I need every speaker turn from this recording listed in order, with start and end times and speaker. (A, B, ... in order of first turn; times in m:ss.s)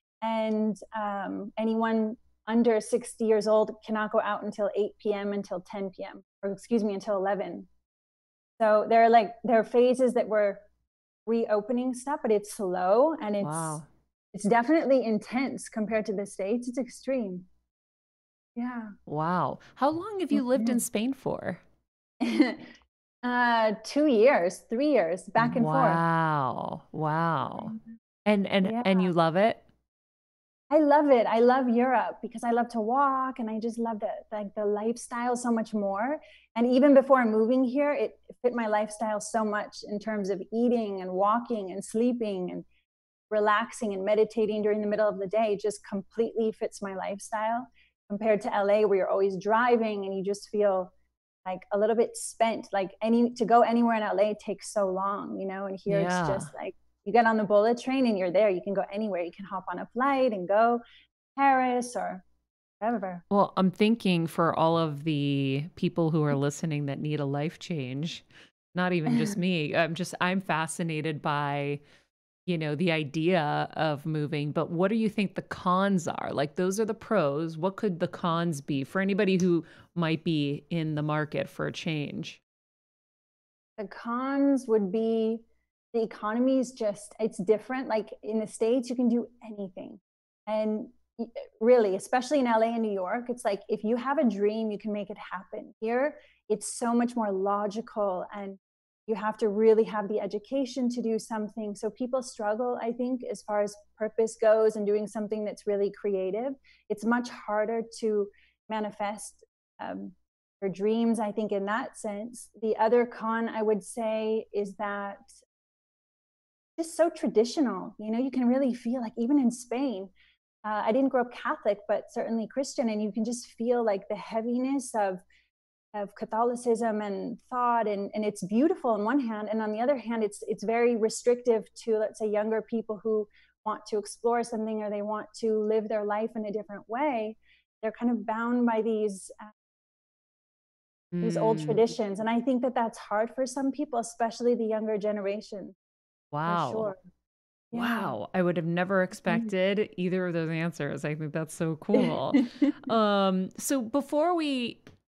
0:00.2-0:07.7 A
0:08.6-0:10.6 A
0:11.3-0:13.8 A
0:13.4-0:13.9 B
0:14.3-0:17.5 A
0:18.6-0:19.0 A
0:19.1-0:21.6 B
0:20.3-0:20.8 A
0:22.2-0:22.7 A
0:23.2-0:26.0 A
0:25.4-0:29.6 B
0:28.6-0:29.1 A
0:30.7-0:42.6 A
0:43.3-0:50.9 A
0:51.4-1:00.8 A
0:55.9-0:56.5 B
1:01.4-1:02.2 A
1:02.8-1:03.2 A
1:03.3-1:11.8 B
1:12.5-1:22.4 B
1:23.8-1:55.4 A
1:56.8-2:00.1 A
2:00.6-2:05.2 A
2:05.9-2:19.5 A
2:21.1-2:21.8 B
2:21.2-2:25.8 A
2:26.3-2:26.9 B
2:26.5-2:27.0 A
2:27.7-2:28.1 A
2:27.7-2:34.8 B
2:32.4-2:32.7 A